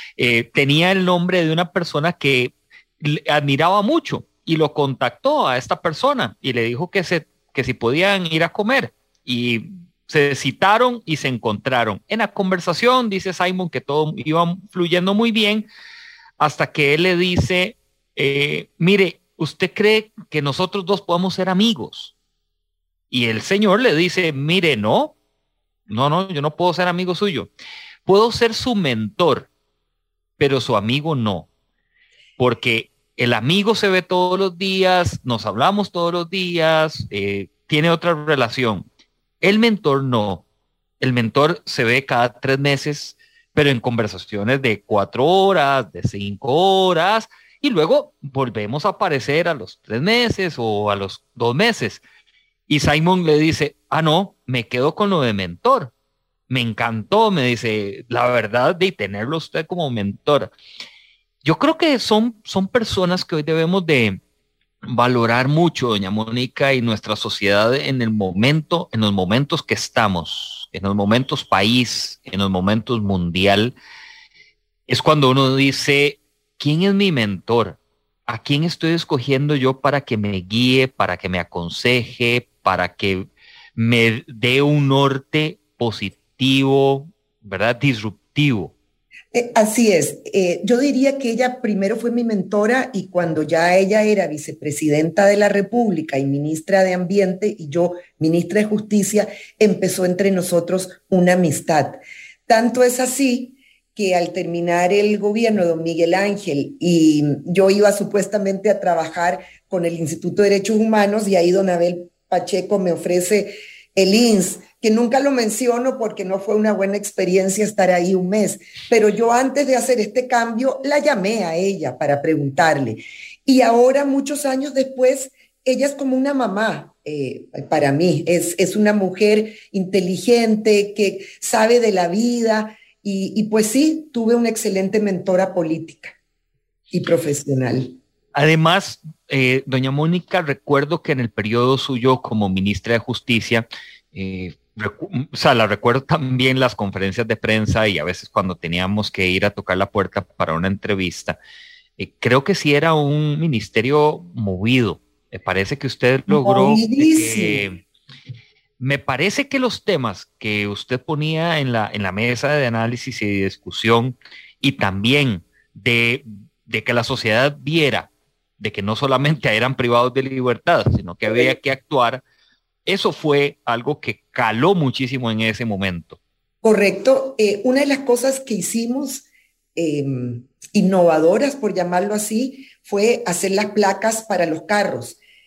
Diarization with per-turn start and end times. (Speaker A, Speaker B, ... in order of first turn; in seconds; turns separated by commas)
Speaker A: 0.2-15.7, Speaker A: 16.4-22.1, Speaker A: 23.1-25.2, Speaker A: 25.9-27.5, Speaker A: 28.1-29.5, Speaker A: 30.4-31.5, Speaker A: 32.4-38.9, Speaker A: 39.4-40.5, Speaker A: 41.0-52.0, Speaker A: 52.7-55.9, Speaker A: 56.5-60.5, Speaker A: 61.4-64.2, Speaker A: 64.8-73.8, Speaker A: 74.9-88.7, Speaker B: 89.3-136.2, Speaker B: 136.9-138.0, Speaker A: 138.3-151.4, Speaker A: 152.0-157.8, Speaker B: 156.3-157.6, Speaker A: 158.8-172.2, Speaker B: 171.3-171.5, Speaker A: 172.9-176.2, Speaker B: 176.6-185.2